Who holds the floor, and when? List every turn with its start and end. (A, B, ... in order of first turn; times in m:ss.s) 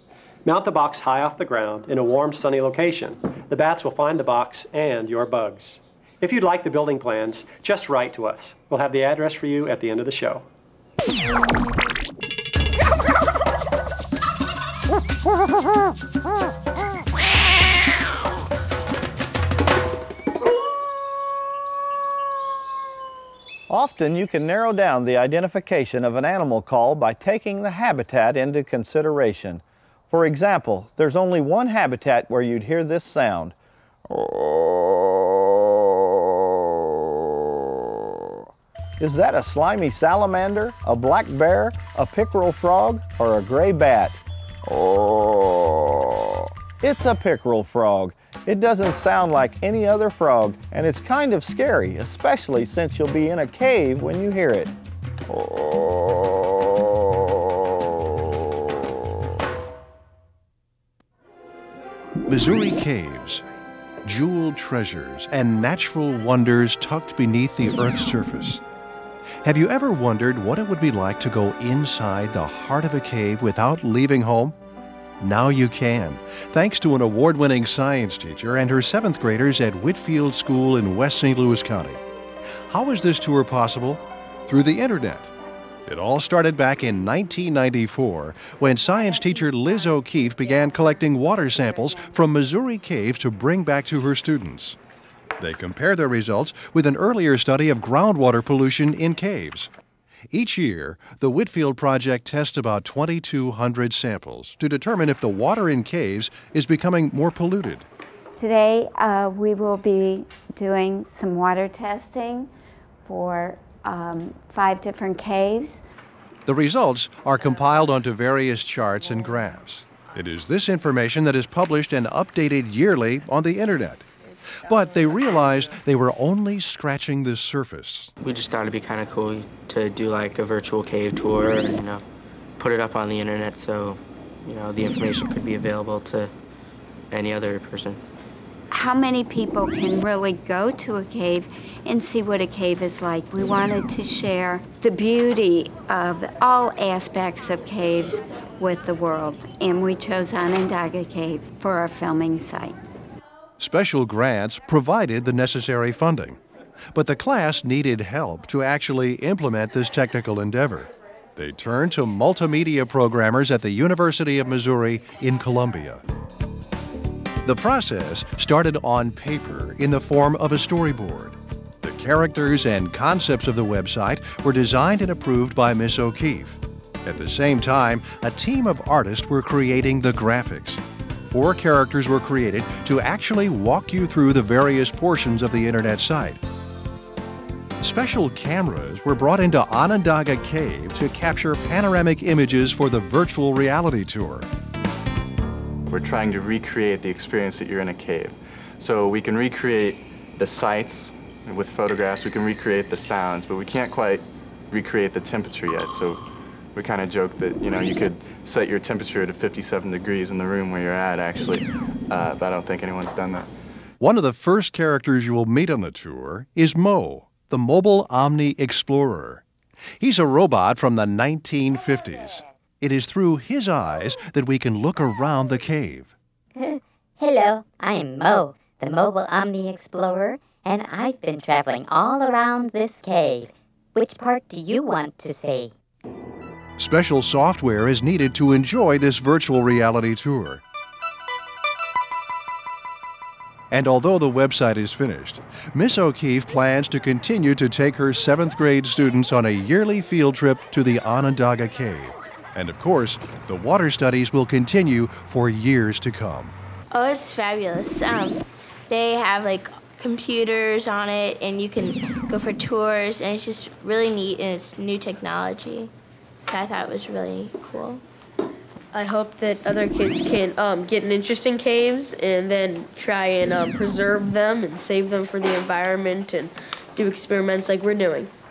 0:00.4-0:10.4 A
0:23.7-0:33.6 B
0:34.1-0:38.3 B
0:39.0-0:54.7 B
0:55.3-0:56.4 B
1:02.3-1:03.4 C
1:04.0-1:08.6 C
1:09.4-1:14.6 C
1:15.2-1:22.0 C
1:22.7-1:25.3 C
1:25.9-1:34.8 C
1:35.4-1:39.7 C
1:40.3-1:47.9 C
1:48.4-1:52.5 D
1:53.0-1:55.8 D
1:56.5-2:08.1 C
2:08.2-2:12.0 E
2:12.6-2:16.3 E
2:17.1-2:18.0 E
2:18.7-2:32.8 D
2:33.6-2:36.4 C
2:36.9-2:46.0 C
2:47.4-3:06.4 C
3:07.8-3:14.5 C
3:15.9-3:26.2 F
3:26.8-3:33.5 F
3:34.0-3:39.4 C
3:40.0-3:46.1 C
3:46.6-3:55.7 G
3:56.8-4:00.6 C
4:03.7-4:16.6 C
4:16.9-4:28.0 H
4:28.9-4:38.3 I